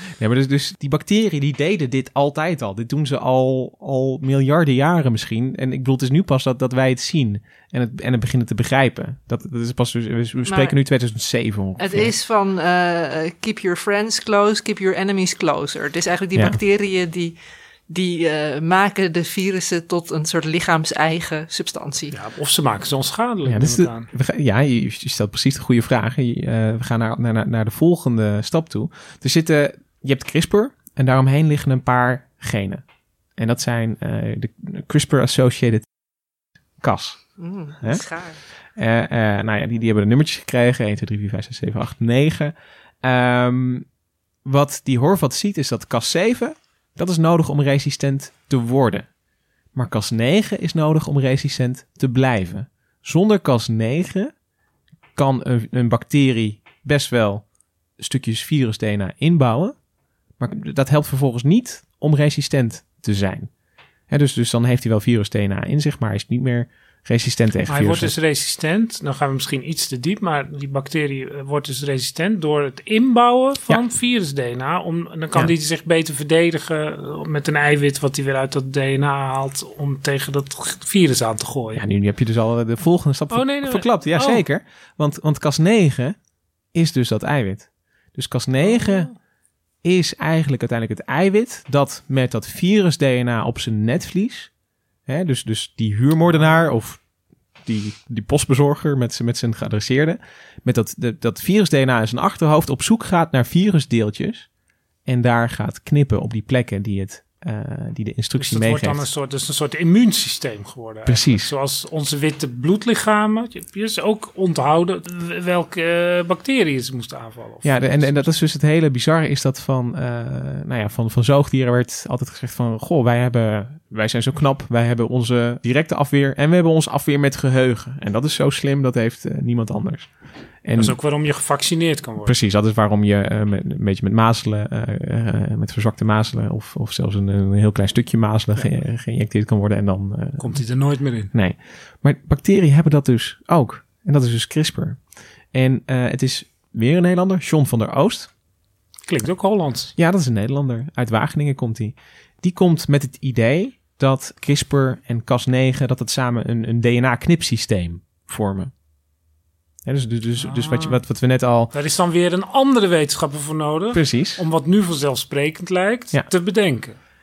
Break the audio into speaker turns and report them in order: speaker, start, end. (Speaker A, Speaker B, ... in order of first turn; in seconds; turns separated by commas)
Speaker A: 0.1-12.1, Speaker B: 10.4-10.7, Speaker B: 11.8-17.4, Speaker B: 17.9-22.1, Speaker C: 22.1-24.1, Speaker A: 23.4-32.8, Speaker A: 33.4-35.9, Speaker A: 36.8-37.3, Speaker B: 37.4-38.4, Speaker A: 38.7-43.9, Speaker A: 44.4-49.1, Speaker A: 49.7-54.3, Speaker A: 55.1-57.5, Speaker A: 58.0-59.8, Speaker A: 60.4-63.5, Speaker A: 64.1-68.1, Speaker C: 67.7-81.8, Speaker A: 81.7-86.2, Speaker C: 83.3-84.4, Speaker A: 86.7-89.1, Speaker C: 88.6-89.1, Speaker A: 89.8-94.5, Speaker A: 95.1-97.0, Speaker A: 97.6-104.5, Speaker A: 105.0-109.0, Speaker C: 108.4-118.3, Speaker A: 111.1-111.5, Speaker A: 117.6-131.0, Speaker C: 130.8-132.3, Speaker A: 132.2-140.6, Speaker C: 140.4-141.3, Speaker A: 141.3-145.0, Speaker A: 145.5-148.3, Speaker C: 149.1-149.9, Speaker A: 150.0-158.7, Speaker A: 159.8-161.7, Speaker C: 160.4-161.0, Speaker C: 161.7-166.9, Speaker A: 163.9-164.4